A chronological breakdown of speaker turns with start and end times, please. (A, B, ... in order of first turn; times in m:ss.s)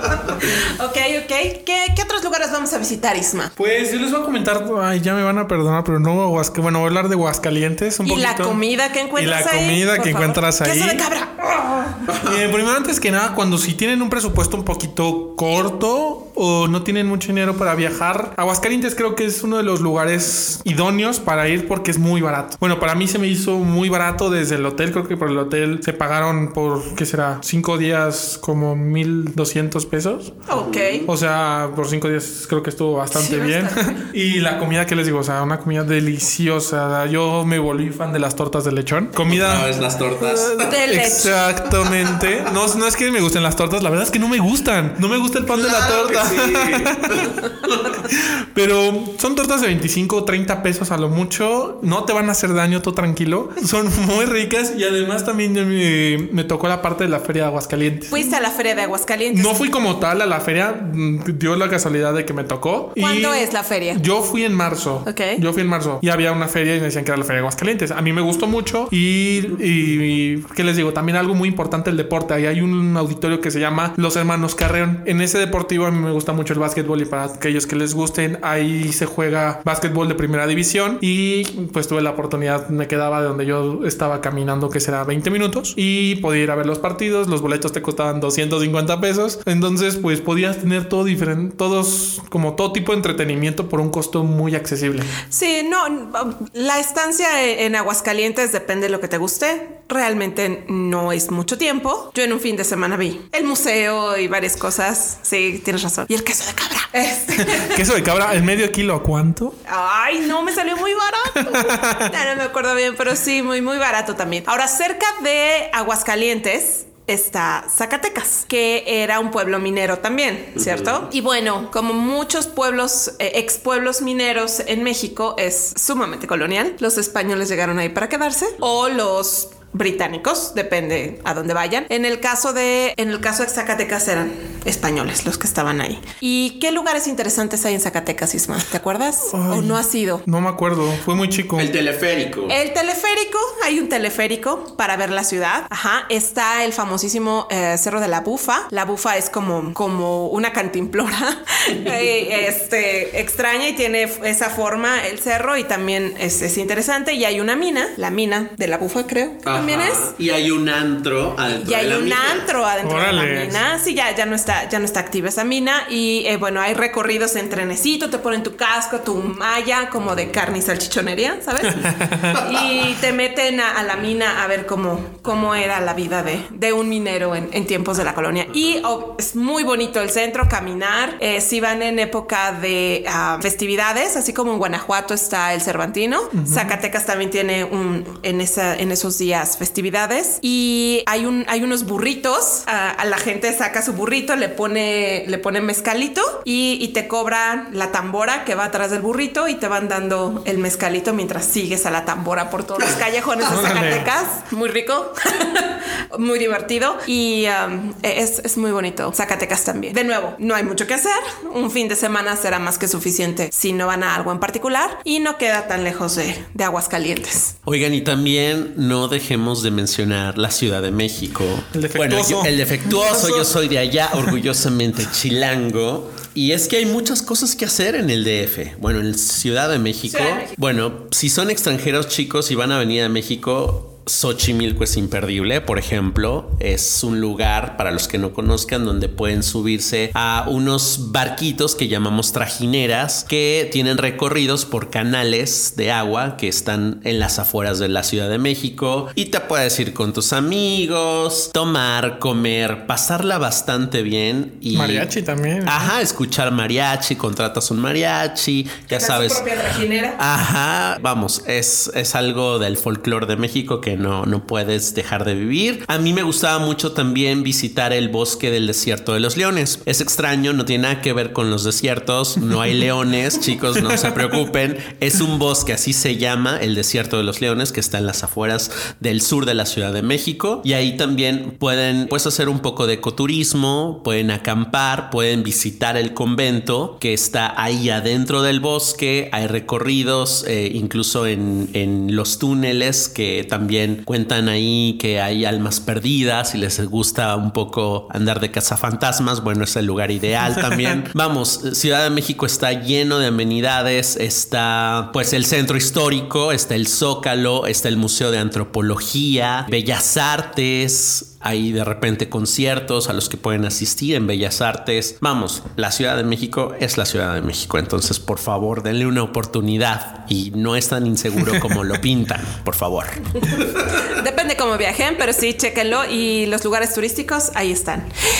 0:00.3-0:03.5 A
0:03.6-0:08.6 B
0:08.0-0:12.0 A
0:09.2-0:11.0 B
0:12.1-0:30.3 B
0:12.1-0:12.4 C
0:30.5-0:31.1 A
0:30.5-0:31.1 C
0:31.0-0:39.7 B
0:33.1-0:34.0 A
0:39.2-0:40.8 C
0:40.2-0:58.2 B
0:40.6-0:41.4 A
0:45.4-0:47.8 C
0:58.1-0:59.6 A
0:59.3-1:35.1 B
1:03.0-1:04.0 A
1:05.0-1:05.4 A
1:35.3-1:47.8 A
1:47.3-1:49.6 B
1:49.6-2:20.2 A
1:51.3-1:52.1 B
2:00.6-2:01.0 C
2:19.3-2:21.7 B
2:21.6-2:22.6 C
2:22.5-2:40.1 A
2:39.4-2:42.5 C
2:41.5-3:37.5 A
2:42.8-2:43.6 B
2:51.7-2:52.4 B
3:06.3-3:06.8 B
3:23.4-3:24.1 B
3:37.6-4:15.1 C
3:41.7-3:43.6 B
3:50.1-3:50.5 A
4:14.7-4:15.9 B
4:15.6-4:19.5 C
4:18.9-4:20.2 A
4:20.2-5:23.4 C
4:33.8-4:34.1 B
5:00.4-5:00.8 B
5:23.4-5:28.1 A